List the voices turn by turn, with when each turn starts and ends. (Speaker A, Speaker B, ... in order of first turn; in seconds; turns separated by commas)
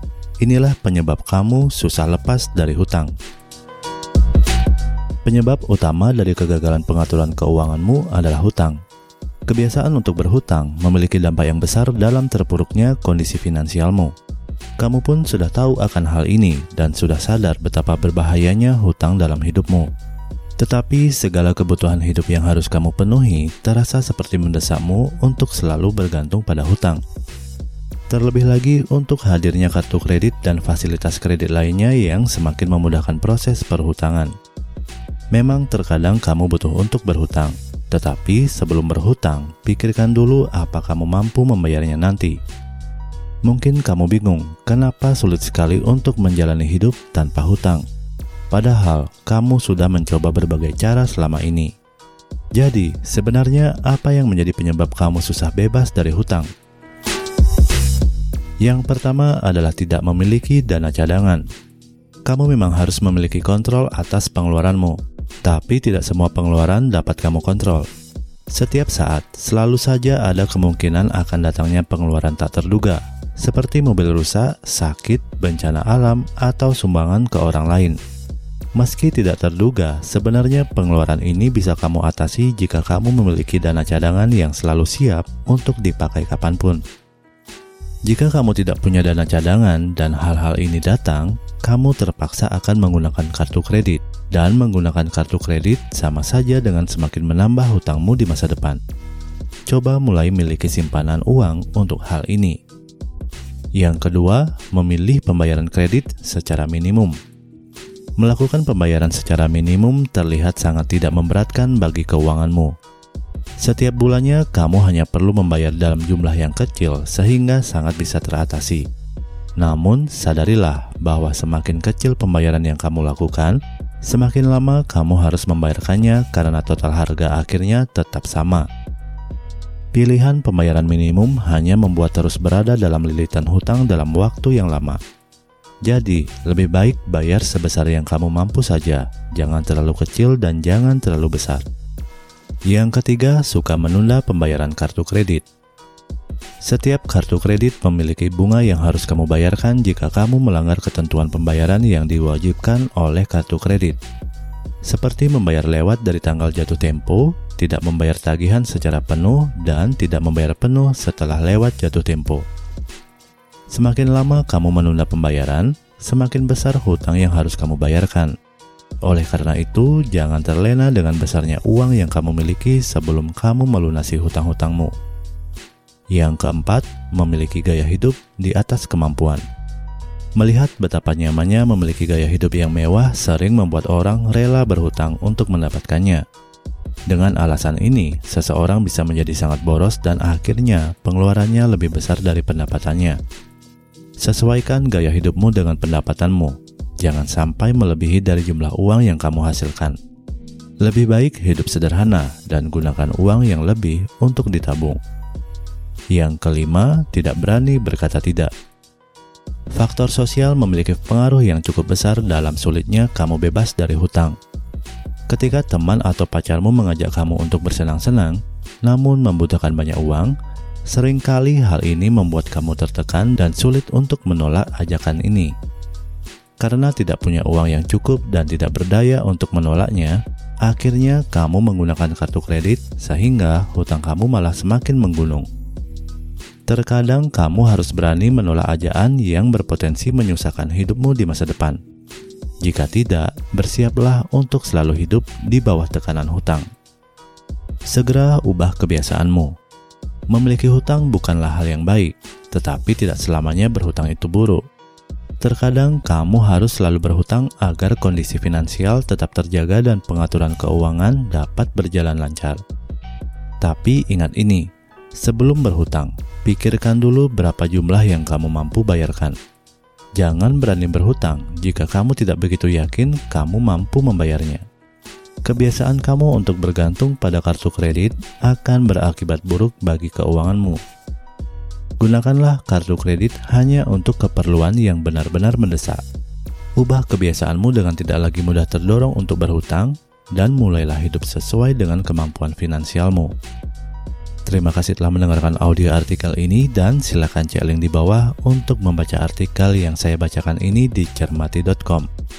Speaker A: 0.4-3.1, Speaker A: 5.2-8.8, Speaker A: 9.5-14.1, Speaker A: 14.8-19.9, Speaker A: 20.6-27.0, Speaker A: 28.1-34.3, Speaker A: 35.3-42.4, Speaker A: 43.4-47.8, Speaker A: 48.5-51.7, Speaker A: 52.5-56.5, Speaker A: 58.6-61.4, Speaker A: 62.2-67.9, Speaker A: 68.5-78.0, Speaker A: 78.8-86.8, Speaker A: 88.0-98.8, Speaker A: 99.7-102.6, Speaker A: 103.8-107.2, Speaker A: 108.2-112.7, Speaker A: 113.6-118.9, Speaker A: 119.6-128.7, Speaker A: 129.9-135.0, Speaker A: 135.8-141.6, Speaker A: 142.7-145.4, Speaker A: 146.7-154.0, Speaker A: 154.8-162.4, Speaker A: 163.7-168.3, Speaker A: 169.1-174.9, Speaker A: 176.1-179.4, Speaker A: 180.4-186.2, Speaker A: 187.1-193.2, Speaker A: 194.2-200.0, Speaker A: 200.8-205.0, Speaker A: 206.1-208.5, Speaker A: 209.7-214.3, Speaker A: 215.3-220.3, Speaker A: 220.9-225.5, Speaker A: 226.6-235.5, Speaker A: 236.7-241.8, Speaker A: 242.6-246.7, Speaker A: 247.9-249.5, Speaker A: 250.3-254.6, Speaker A: 255.4-262.6, Speaker A: 263.6-264.6, Speaker A: 265.2-269.4, Speaker A: 270.2-274.6, Speaker A: 275.4-280.8, Speaker A: 282.0-286.0, Speaker A: 286.8-293.3, Speaker A: 294.4-302.1